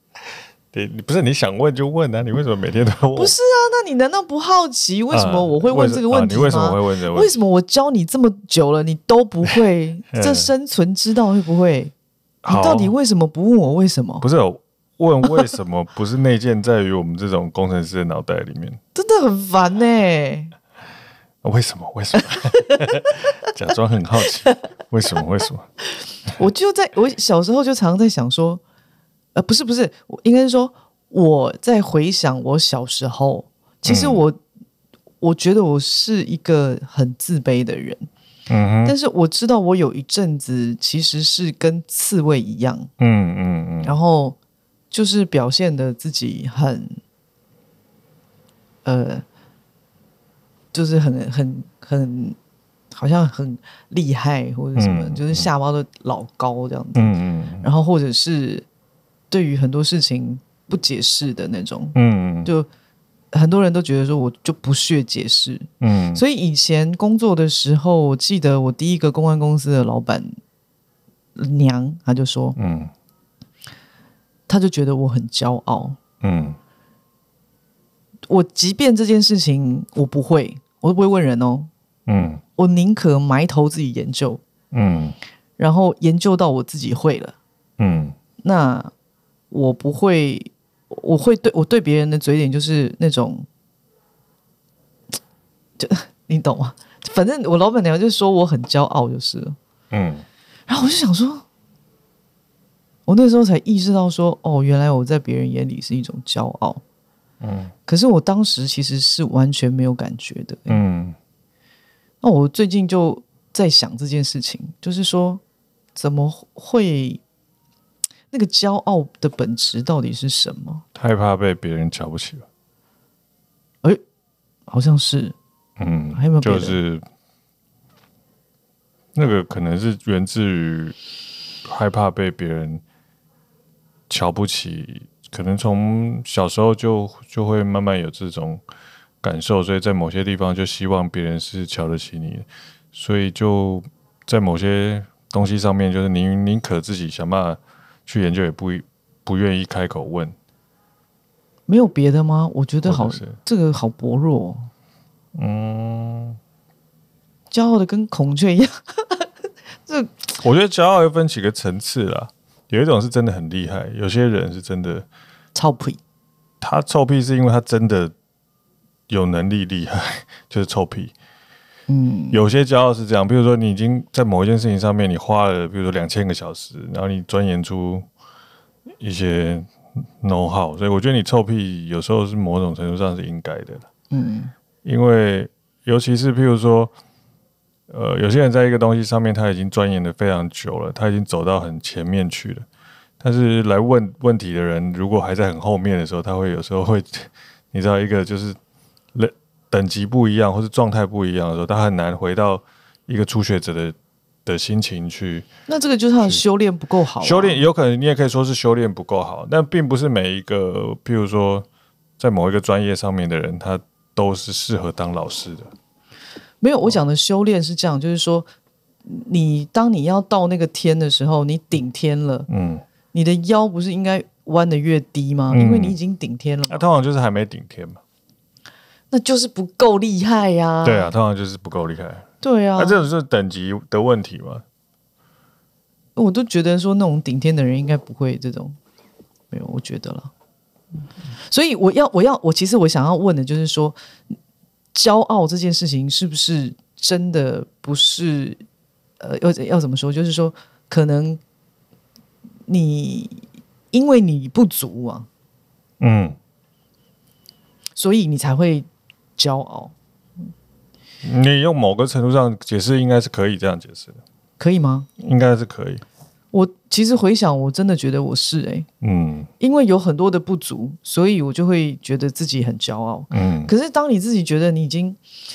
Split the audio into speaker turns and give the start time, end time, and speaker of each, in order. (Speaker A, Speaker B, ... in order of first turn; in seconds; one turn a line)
Speaker A: 0.7-3.4
Speaker B: 3.2-11.9
Speaker A: 5.1-7.3
Speaker A: 10.1-10.5
Speaker A: 12.4-12.9
Speaker B: 12.5-14.2
Speaker A: 14.2-18.8
Speaker B: 18.9-20.5
Speaker A: 21.4-25.7
Speaker B: 22.3-22.9
Speaker B: 26.4-28.6
Speaker B: 29.4-34.4
Speaker A: 33.9-34.2
Speaker B: 35.2-38.1
Speaker A: 38.5-39.0
Speaker B: 38.9-42.9
Speaker A: 43.0-44.0
Speaker B: 43.8-44.4
Speaker B: 44.9-47.0
Speaker B: 48.9-49.2
Speaker B: 50.7-52.4
Speaker B: 52.9-58.7
Speaker A: 54.8-55.5
Speaker A: 57.0-57.7
Speaker B: 59.3-62.7
Speaker A: 62.0-62.5
Speaker B: 63.3-70.3
Speaker A: 65.8-66.2
Speaker B: 71.4-72.6
Speaker A: 72.6-72.9
Speaker B: 74.5-76.0
Speaker A: 76.2-76.6
Speaker B: 78.3-81.7
Speaker A: 82.1-82.4
Speaker B: 82.6-84.4
Speaker A: 84.7-85.2
Speaker B: 85.6-87.4
Speaker A: 87.8-88.2
Speaker B: 88.4-88.9
Speaker B: 89.5-93.5
Speaker B: 95.8-99.6
Speaker A: 99.9-100.2
Speaker B: 100.7-101.5
Speaker B: 103.1-106.8
Speaker A: 107.4-107.7
Speaker B: 107.9-110.8
Speaker A: 110.7-111.2
Speaker B: 112.2-115.4
Speaker B: 116.0-117.2
Speaker B: 118.3-120.8
Speaker A: 121.0-122.5
Speaker B: 124.7-125.4
Speaker A: 125.8-127.0
Speaker B: 126.1-126.8
Speaker A: 129.2-131.0
Speaker A: 131.7-132.8
Speaker A: 134.1-138.6
Speaker A: 139.2-150.3
Speaker B: 151.7-154.7
Speaker A: 152.9-153.4
Speaker A: 155.3-156.4
Speaker B: 157.5-159.3
Speaker B: 159.9-160.3
Speaker A: 160.4-165.1
Speaker B: 165.6-166.0
Speaker A: 166.6-168.1
Speaker A: 169.1-171.1
Speaker B: 171.9-172.4
Speaker A: 172.3-178.1
Speaker A: 179.0-183.9
Speaker B: 184.1-184.5
Speaker A: 184.8-186.9
Speaker A: 187.9-192.7
Speaker A: 193.2-198.6
Speaker A: 199.1-205.5
Speaker B: 205.7-207.6
Speaker A: 207.2-211.7
Speaker A: 212.2-215.7
Speaker B: 216.6-218.5
Speaker B: 219.1-222.5
Speaker A: 222.5-222.8
Speaker B: 223.1-226.8
Speaker A: 225.5-226.0
Speaker A: 226.7-228.0
Speaker B: 229.1-231.1
Speaker A: 230.8-234.6
Speaker B: 232.4-233.0
Speaker B: 236.2-238.8
Speaker B: 239.5-240.3
Speaker B: 241.4-244.0
Speaker B: 244.9-248.6
Speaker B: 249.2-251.4
Speaker B: 252.7-255.3
Speaker A: 256.0-256.4
Speaker B: 258.0-259.9
Speaker A: 261.2-264.2
Speaker B: 264.6-265.1
Speaker A: 265.2-266.0
Speaker B: 266.5-268.9
Speaker A: 269.0-269.5
Speaker B: 269.6-275.2
Speaker A: 273.3-273.7